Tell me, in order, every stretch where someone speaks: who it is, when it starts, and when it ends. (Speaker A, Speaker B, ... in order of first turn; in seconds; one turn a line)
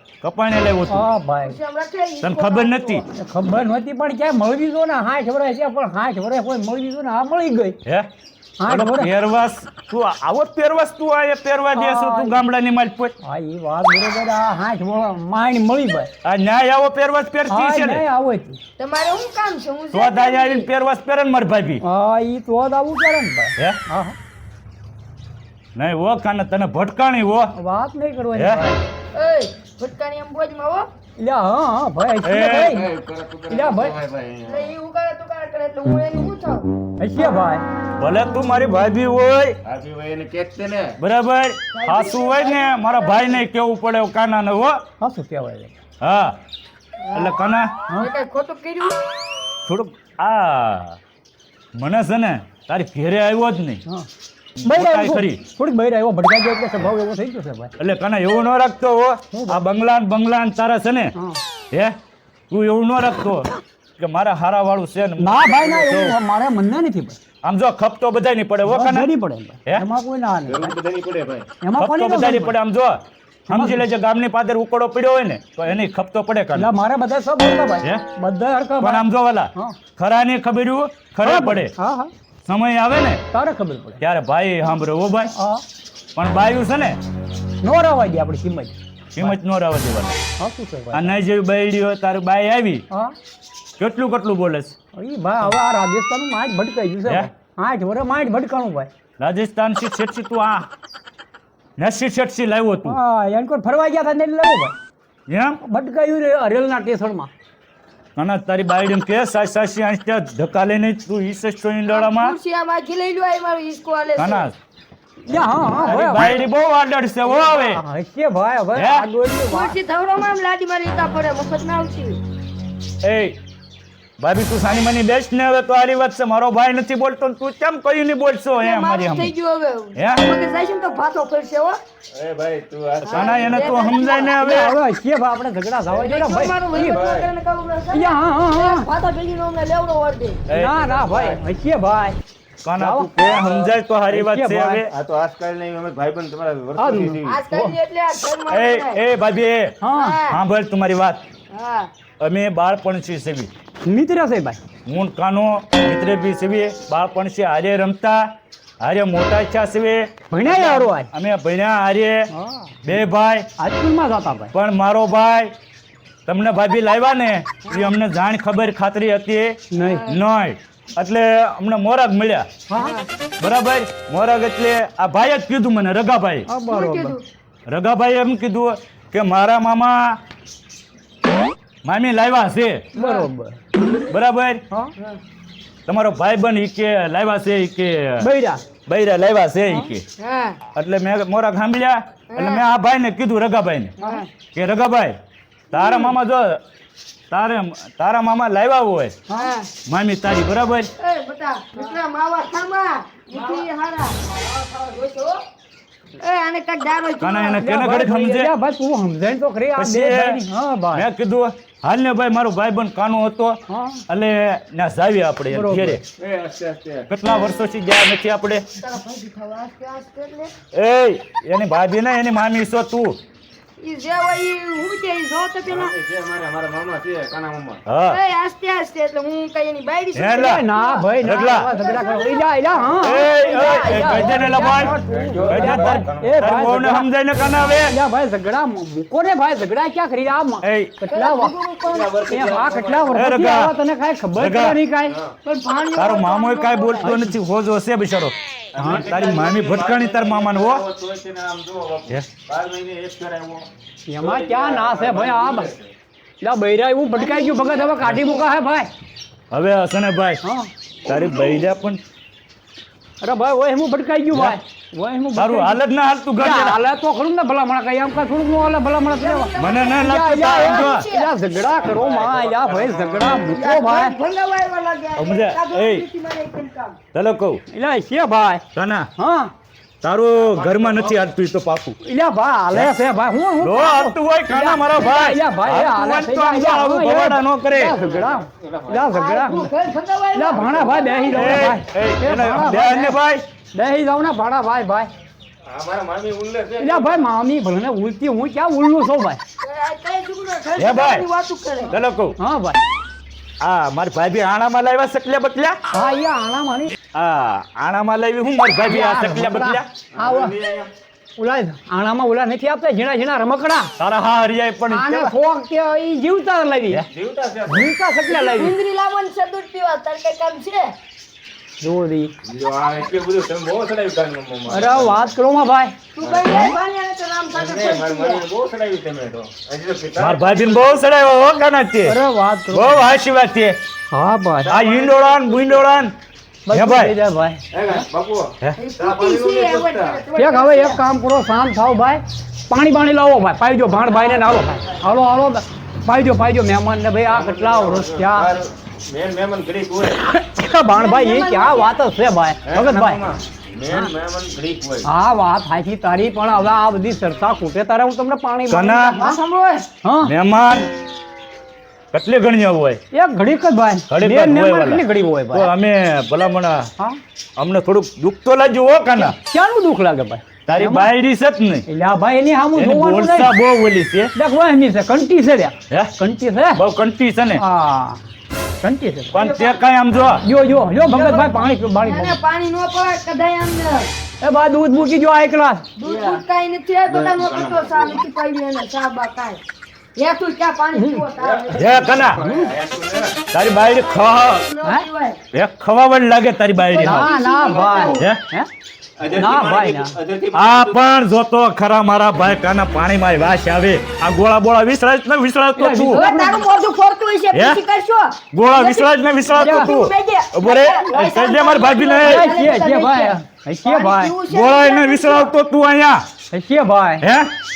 Speaker A: 0.2-1.1
Speaker B: 0.9-1.6
Speaker C: 1.4-3.0
Speaker A: 2.2-3.0
Speaker B: 3.1-7.8
Speaker B: 8.6-9.1
Speaker A: 8.7-13.1
Speaker B: 11.7-12.4
Speaker B: 13.2-16.1
Speaker A: 16.2-18.1
Speaker B: 17.5-18.6
Speaker C: 18.8-20.7
Speaker A: 19.9-21.8
Speaker B: 21.8-24.2
Speaker A: 25.8-27.5
Speaker B: 27.6-28.8
Speaker A: 28.4-28.7
Speaker C: 29.1-30.9
Speaker B: 31.2-32.9
Speaker A: 32.2-32.8
Speaker D: 32.6-34.7
Speaker B: 33.5-34.0
Speaker C: 34.5-36.7
Speaker B: 37.0-37.6
Speaker A: 38.0-39.6
Speaker D: 39.6-41.0
Speaker A: 41.0-44.8
Speaker C: 41.7-43.4
Speaker B: 45.0-45.7
Speaker A: 46.0-46.4
Speaker C: 47.0-47.4
Speaker A: 47.1-47.7
Speaker C: 48.0-49.0
Speaker A: 49.7-51.0
Speaker A: 51.8-53.8
Speaker A: 54.6-55.4
Speaker B: 54.6-57.7
Speaker A: 57.8-61.1
Speaker B: 59.3-59.6
Speaker A: 62.5-66.2
Speaker B: 65.2-67.2
Speaker A: 67.4-69.1
Speaker B: 68.7-70.8
Speaker D: 70.5-71.5
Speaker B: 71.6-72.5
Speaker A: 71.8-73.0
Speaker B: 73.5-73.9
Speaker A: 73.5-76.7
Speaker B: 76.5-79.8
Speaker A: 78.8-81.7
Speaker B: 81.2-82.1
Speaker A: 82.5-83.2
Speaker B: 83.3-84.0
Speaker A: 84.0-85.3
Speaker B: 85.3-85.6
Speaker A: 86.2-87.0
Speaker B: 87.6-89.4
Speaker A: 89.2-90.2
Speaker B: 90.4-91.2
Speaker A: 90.9-92.8
Speaker A: 93.8-94.8
Speaker B: 94.9-98.9
Speaker A: 99.2-100.7
Speaker A: 101.8-103.0
Speaker B: 102.8-104.7
Speaker A: 105.3-105.6
Speaker B: 105.6-107.3
Speaker A: 108.2-112.4
Speaker C: 111.9-114.5
Speaker A: 114.2-114.5
Speaker B: 115.3-116.4
Speaker A: 115.8-117.8
Speaker B: 117.5-119.8
Speaker A: 118.7-119.1
Speaker C: 119.5-122.2
Speaker A: 123.0-123.4
Speaker A: 124.2-129.3
Speaker C: 128.6-131.8
Speaker A: 130.0-130.2
Speaker D: 132.1-133.9
Speaker C: 133.1-134.4
Speaker A: 133.1-134.8
Speaker B: 134.4-137.0
Speaker C: 135.9-140.4
Speaker D: 136.7-137.3
Speaker B: 137.9-138.9
Speaker A: 140.5-140.8
Speaker B: 140.5-142.2
Speaker D: 140.9-141.4
Speaker A: 142.6-144.9
Speaker B: 142.8-143.1
Speaker B: 144.1-144.8
Speaker D: 144.9-147.4
Speaker B: 146.8-147.7
Speaker C: 147.2-149.0
Speaker A: 148.5-149.8
Speaker B: 149.8-150.2
Speaker C: 149.9-150.4
Speaker A: 150.3-151.2
Speaker C: 151.5-151.9
Speaker A: 152.2-153.5
Speaker B: 153.8-154.6
Speaker A: 154.9-162.3
Speaker B: 160.3-161.1
Speaker B: 162.3-162.8
Speaker A: 162.8-163.5
Speaker B: 163.6-164.5
Speaker A: 164.5-165.5
Speaker A: 166.3-172.5
Speaker B: 169.7-170.0
Speaker C: 169.8-170.2
Speaker B: 172.7-172.9
Speaker C: 172.8-173.1
Speaker A: 173.4-176.5
Speaker B: 176.5-177.2
Speaker C: 176.7-177.2
Speaker A: 177.7-180.2
Speaker A: 181.8-182.9
Speaker B: 182.9-183.6
Speaker C: 182.9-183.3
Speaker A: 184.0-184.6
Speaker A: 185.9-188.3
Speaker B: 188.2-188.6
Speaker A: 188.9-190.1
Speaker C: 190.2-190.6
Speaker A: 190.7-193.9
Speaker C: 192.3-192.7
Speaker B: 194.0-194.2
Speaker C: 194.0-194.3
Speaker A: 194.5-195.2
Speaker A: 195.7-196.6
Speaker C: 195.7-196.1
Speaker A: 197.3-199.2
Speaker C: 199.3-199.7
Speaker A: 199.9-200.9
Speaker C: 201.0-205.4
Speaker C: 206.2-207.6
Speaker A: 207.2-208.5
Speaker B: 207.6-211.1
Speaker A: 209.8-210.4
Speaker A: 210.9-216.0
Speaker B: 213.7-214.0
Speaker B: 215.5-216.0
Speaker D: 216.2-217.1
Speaker A: 217.1-218.7
Speaker C: 218.8-220.5
Speaker A: 220.7-223.2
Speaker C: 223.8-225.9
Speaker D: 225.7-227.8
Speaker A: 227.9-228.2
Speaker C: 228.1-235.0
Speaker A: 230.2-230.6
Speaker B: 230.4-237.1
Speaker A: 231.2-231.7
Speaker A: 233.0-237.9
Speaker D: 235.0-236.4
Speaker B: 237.8-241.5
Speaker A: 240.6-241.0
Speaker C: 241.1-242.1
Speaker D: 241.9-243.3
Speaker B: 242.3-245.2
Speaker A: 243.1-243.7
Speaker A: 244.4-244.8
Speaker D: 245.1-245.3
Speaker C: 245.4-247.1
Speaker A: 246.0-250.8
Speaker D: 248.8-253.7
Speaker B: 248.8-249.1
Speaker B: 254.1-255.7
Speaker D: 254.2-255.9
Speaker B: 256.4-258.9
Speaker C: 257.2-258.5
Speaker A: 259.5-260.4
Speaker B: 260.4-260.7
Speaker A: 261.1-262.0
Speaker B: 263.2-265.8
Speaker A: 264.3-264.6
Speaker A: 265.4-266.8
Speaker B: 266.4-274.1
Speaker C: 269.1-271.3
Speaker A: 269.6-271.1
Speaker D: 271.6-273.4
Speaker C: 273.5-277.0
Speaker A: 275.2-276.1
Speaker A: 277.1-277.6
Speaker B: 277.7-278.6
Speaker A: 278.7-279.1
Speaker B: 279.2-279.5
Speaker A: 280.0-282.0
Speaker D: 280.4-281.2
Speaker B: 282.0-289.7
Speaker A: 283.6-288.0
Speaker D: 287.9-289.1
Speaker C: 289.1-291.7
Speaker B: 290.3-293.2
Speaker D: 290.6-290.9
Speaker A: 291.3-293.4
Speaker B: 293.7-295.1
Speaker D: 295.7-297.2
Speaker B: 296.8-299.4
Speaker C: 299.6-301.9
Speaker A: 300.8-301.3
Speaker A: 301.9-302.4
Speaker B: 302.4-302.8
Speaker A: 303.6-305.8
Speaker B: 305.9-306.9
Speaker A: 307.1-309.9
Speaker B: 308.9-310.6
Speaker D: 310.1-310.9
Speaker B: 311.4-313.9
Speaker A: 314.0-315.4
Speaker B: 314.9-317.1
Speaker D: 317.1-317.9
Speaker B: 317.7-318.8
Speaker C: 318.3-320.9
Speaker B: 321.8-322.3
Speaker D: 322.4-325.3
Speaker B: 324.7-326.0
Speaker C: 326.1-328.4
Speaker D: 326.2-326.7
Speaker D: 327.5-330.8
Speaker A: 330.2-332.2
Speaker B: 332.1-333.0
Speaker A: 332.7-333.8
Speaker B: 334.1-334.7
Speaker A: 334.7-336.1
Speaker D: 334.7-335.9
Speaker B: 336.7-338.0
Speaker A: 336.7-337.2
Speaker D: 337.7-340.2
Speaker C: 338.8-341.0
Speaker B: 340.4-348.5
Speaker D: 347.3-350.2
Speaker B: 350.4-353.2
Speaker C: 350.9-352.0
Speaker D: 352.7-355.1
Speaker B: 355.0-359.4
Speaker A: 358.7-359.2
Speaker C: 359.1-359.9
Speaker B: 360.0-360.3
Speaker A: 360.2-360.9
Speaker A: 362.1-363.0
Speaker B: 363.1-365.7
Speaker A: 364.1-366.9
Speaker A: 367.6-369.4
Speaker B: 369.2-371.1
Speaker A: 370.7-371.9
Speaker B: 371.9-373.5
Speaker A: 372.8-374.3
Speaker B: 374.4-376.8
Speaker A: 376.7-377.6
Speaker B: 377.6-378.2
Speaker B: 378.8-379.4
Speaker A: 379.3-380.4
Speaker B: 380.4-382.4
Speaker C: 381.1-384.1
Speaker B: 384.4-385.9
Speaker C: 386.0-389.6
Speaker D: 386.0-386.4
Speaker D: 387.1-388.2
Speaker C: 390.2-392.1
Speaker B: 390.9-391.2
Speaker D: 391.4-393.4
Speaker A: 391.7-392.4
Speaker B: 392.4-392.7
Speaker A: 393.5-394.6
Speaker C: 393.7-395.4
Speaker A: 395.5-397.4
Speaker C: 396.8-398.2
Speaker B: 397.0-398.7
Speaker D: 397.7-398.1
Speaker D: 399.2-401.0
Speaker B: 399.3-400.1
Speaker A: 400.5-406.2
Speaker B: 405.8-406.6
Speaker C: 406.1-415.5
Speaker A: 407.5-407.8
Speaker A: 408.5-412.6
Speaker B: 409.6-409.9
Speaker B: 412.2-414.4
Speaker A: 414.5-416.2
Speaker B: 416.5-417.2
Speaker A: 417.2-417.5